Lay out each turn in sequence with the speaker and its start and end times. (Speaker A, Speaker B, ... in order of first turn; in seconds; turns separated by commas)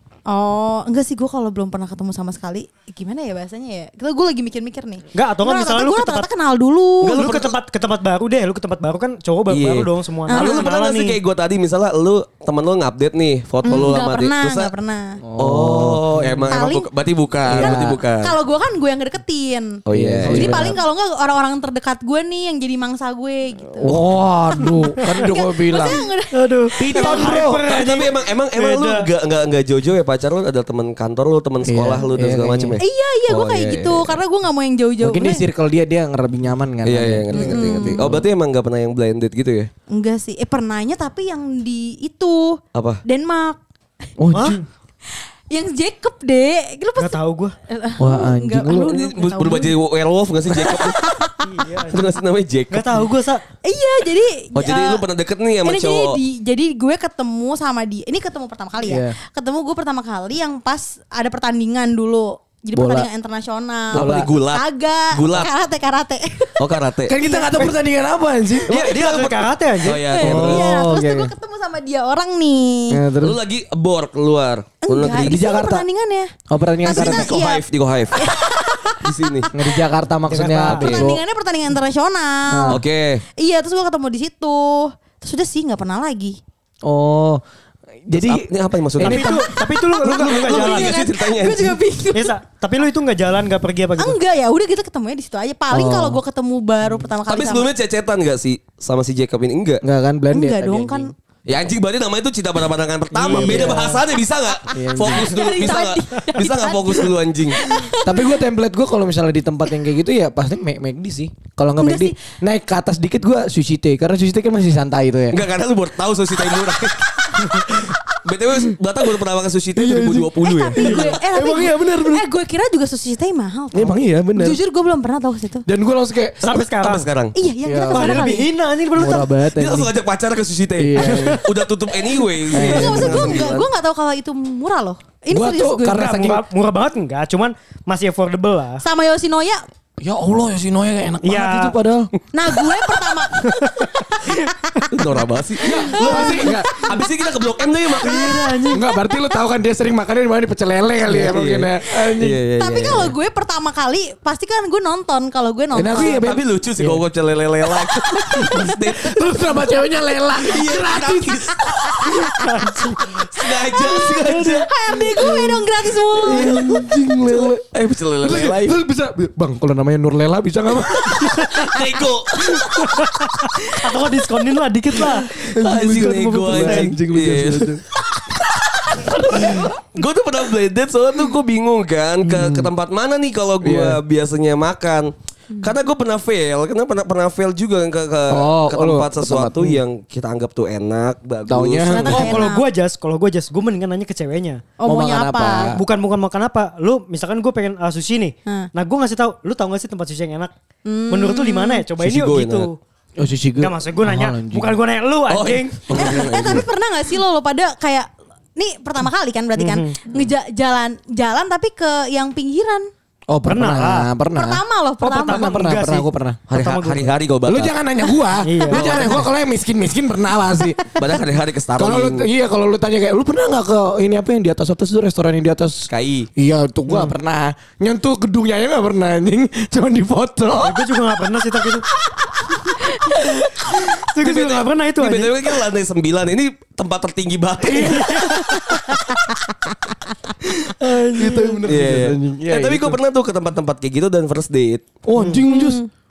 Speaker A: 0.3-7.2, Speaker B: 5.1-6.3, Speaker C: 7.0-7.6, Speaker B: 7.2-11.2, Speaker C: 9.5-14.7, Speaker A: 10.3-10.7, Speaker A: 13.6-15.2, Speaker D: 15.2-16.4, Speaker C: 15.4-18.3, Speaker A: 16.5-16.9, Speaker D: 17.5-18.0, Speaker A: 17.5-23.9, Speaker C: 19.9-20.7, Speaker D: 19.9-20.8, Speaker D: 23.8-26.0, Speaker B: 24.6-25.1, Speaker A: 25.1-26.3, Speaker B: 26.3-29.1, Speaker D: 26.8-27.6, Speaker A: 26.9-27.4, Speaker C: 27.4-34.2, Speaker D: 31.6-32.8, Speaker A: 32.8-35.4, Speaker D: 35.0-38.2, Speaker C: 36.8-39.7, Speaker A: 37.3-38.2, Speaker A: 39.9-43.6, Speaker C: 42.7-43.0, Speaker D: 44.2-44.6, Speaker B: 44.3-44.6, Speaker A: 45.5-49.7, Speaker B: 47.0-47.5, Speaker D: 48.0-48.9, Speaker C: 48.9-51.0, Speaker A: 50.5-51.5, Speaker B: 51.4-52.1, Speaker C: 51.9-53.1, Speaker B: 52.7-53.4, Speaker A: 53.6-55.0, Speaker C: 54.5-56.2, Speaker A: 55.6-66.6, Speaker D: 58.8-59.1, Speaker D: 62.7-63.1, Speaker D: 63.9-64.3, Speaker C: 63.9-65.5, Speaker C: 66.6-67.2, Speaker D: 67.1-68.9, Speaker A: 67.2-67.6, Speaker C: 68.7-70.7, Speaker B: 68.7-70.1, Speaker A: 70.1-73.0, Speaker D: 70.2-71.3, Speaker D: 72.9-73.4, Speaker C: 73.2-75.5, Speaker A: 74.8-77.6, Speaker D: 75.1-75.8, Speaker D: 76.5-77.3, Speaker C: 76.9-78.2, Speaker A: 78.1-79.7, Speaker C: 79.0-79.5, Speaker D: 79.5-81.2, Speaker B: 80.3-80.9, Speaker C: 80.6-81.1, Speaker A: 80.8-82.8, Speaker D: 82.5-82.8, Speaker C: 82.7-83.2, Speaker A: 83.4-86.4, Speaker D: 86.8-87.4, Speaker D: 88.1-88.4, Speaker C: 88.1-91.8, Speaker D: 89.0-89.5, Speaker B: 89.0-91.0, Speaker A: 89.5-92.3, Speaker B: 92.1-94.2, Speaker A: 94.0-97.7, Speaker D: 95.7-96.2, Speaker C: 97.3-99.8, Speaker D: 99.8-101.1, Speaker A: 100.3-101.1, Speaker C: 101.5-107.7, Speaker B: 103.1-104.0, Speaker D: 103.3-103.9, Speaker A: 104.5-108.4, Speaker D: 104.7-105.4, Speaker D: 108.0-115.4, Speaker A: 111.8-112.2, Speaker C: 115.3-121.1, Speaker D: 119.7-122.2, Speaker A: 120.4-125.7, Speaker B: 120.8-121.1, Speaker D: 123.7-124.6, Speaker D: 125.7-126.6, Speaker B: 126.4-127.1, Speaker C: 126.6-127.3, Speaker A: 127.3-128.5, Speaker D: 127.6-128.3, Speaker B: 127.9-129.3, Speaker D: 128.9-129.9, Speaker C: 129.5-133.7, Speaker D: 130.8-131.4, Speaker B: 131.0-131.4, Speaker A: 132.5-136.0, Speaker D: 132.5-133.5, Speaker D: 135.3-136.4, Speaker B: 135.9-138.8, Speaker A: 138.8-139.6, Speaker D: 140.0-142.1, Speaker B: 141.2-141.7, Speaker A: 142.3-144.3, Speaker B: 143.3-145.2, Speaker C: 144.9-148.6, Speaker D: 145.6-146.8, Speaker B: 146.0-146.5, Speaker A: 146.1-146.9, Speaker B: 148.0-148.8, Speaker A: 148.0-149.3, Speaker D: 148.7-152.4, Speaker C: 151.1-153.2, Speaker A: 152.6-156.2, Speaker D: 155.7-157.0, Speaker C: 156.0-159.5, Speaker A: 157.8-158.8, Speaker D: 158.9-162.3, Speaker C: 160.4-162.0, Speaker A: 161.8-162.7, Speaker B: 162.4-163.0, Speaker C: 163.1-164.7, Speaker A: 163.5-166.5, Speaker B: 164.4-164.6, Speaker D: 165.2-165.6, Speaker C: 166.2-168.8, Speaker D: 166.2-167.7, Speaker D: 168.2-171.8, Speaker C: 171.1-173.1, Speaker B: 172.8-175.3, Speaker D: 173.0-173.3, Speaker D: 175.0-177.8, Speaker C: 175.3-178.2, Speaker B: 175.9-176.9, Speaker D: 178.8-179.7, Speaker C: 178.9-192.4, Speaker D: 182.2-182.7, Speaker D: 183.6-184.0, Speaker D: 188.3-189.8, Speaker D: 191.5-192.3, Speaker A: 191.9-192.7, Speaker B: 192.1-194.7, Speaker A: 194.8-195.7, Speaker D: 194.8-195.8, Speaker B: 195.6-200.5, Speaker A: 200.8-201.8, Speaker B: 201.1-202.8, Speaker C: 202.0-202.7, Speaker D: 203.2-204.8, Speaker B: 203.6-205.9, Speaker C: 205.3-206.7, Speaker A: 205.9-212.9, Speaker B: 209.6-210.0, Speaker D: 213.3-214.6, Speaker B: 213.5-214.1, Speaker A: 214.3-215.6, Speaker B: 215.0-217.1, Speaker D: 215.2-216.4, Speaker C: 216.5-217.7, Speaker D: 217.5-220.8, Speaker B: 218.4-219.2, Speaker C: 218.7-219.2, Speaker C: 220.9-222.3, Speaker D: 221.8-230.9, Speaker C: 225.9-226.3, Speaker B: 226.9-227.1, Speaker B: 230.6-231.9, Speaker B: 233.2-235.5, Speaker C: 234.2-238.3, Speaker D: 237.6-239.0, Speaker B: 237.7-238.6, Speaker D: 240.8-243.0, Speaker B: 240.8-241.6, Speaker C: 241.6-244.9, Speaker D: 245.0-245.8, Speaker B: 245.2-245.4, Speaker A: 245.5-245.9